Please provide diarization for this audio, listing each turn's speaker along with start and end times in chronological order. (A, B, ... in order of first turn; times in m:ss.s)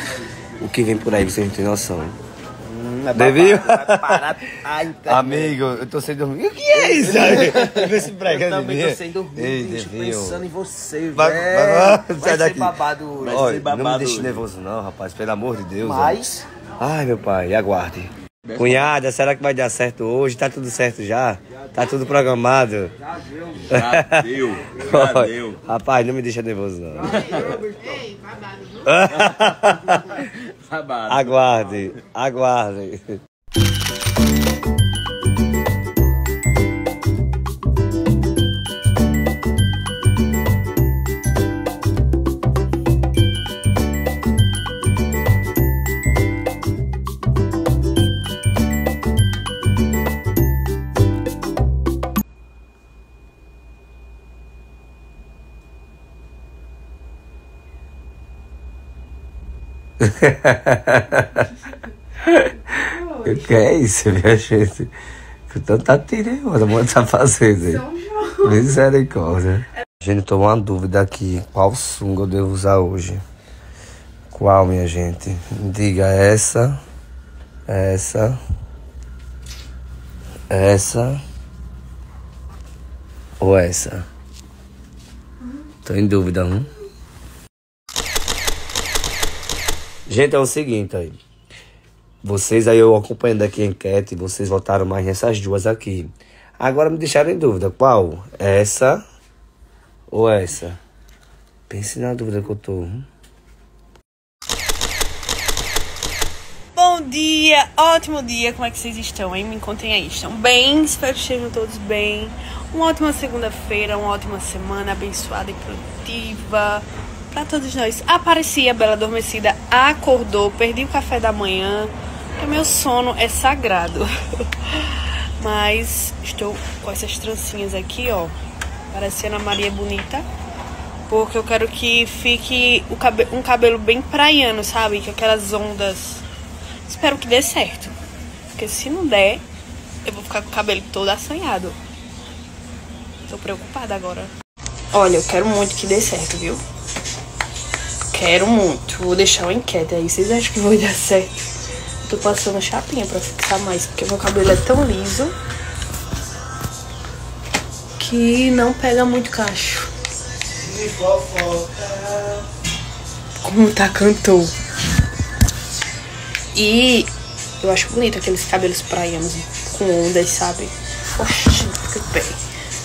0:00.6-0:02.2 A
0:02.6-0:05.6 B
0:03.1-0:04.2 A
0:05.0-0:10.4 A
0:06.7-0:14.4 B
0:11.1-0:16.2 A
0:15.8-0:16.4 B
0:16.8-0:22.9 A
0:23.2-0:23.6 B
0:23.7-0:25.6 C
0:23.7-0:27.4 A
0:27.2-0:27.6 B
0:28.8-0:30.3 A
0:30.8-0:31.1 C
0:31.0-0:33.2 A
1:00.0-1:01.5 A
1:02.2-1:04.9 A
1:05.5-1:07.9 A
1:08.4-1:13.2 A
1:14.3-1:16.8 A
1:17.7-1:18.4 A
1:20.5-1:21.2 A
1:23.4-1:24.1 A
1:25.8-1:26.7 A
1:30.1-1:31.2 A
1:32.2-1:39.0 A
1:40.1-1:40.8 A
1:41.7-1:43.1 A
1:46.8-2:08.4 D
2:08.9-2:10.2 D
2:11.1-2:16.2 D
2:16.8-2:18.0 D
2:18.5-2:19.4 D
2:20.0-2:21.8 D
2:23.2-2:24.3 D
2:24.9-2:26.6 D
2:28.1-2:31.4 D
2:32.0-2:35.4 D
2:38.0-2:39.9 D
2:40.7-2:42.4 B
2:43.4-2:44.5 D
2:46.5-2:52.4 D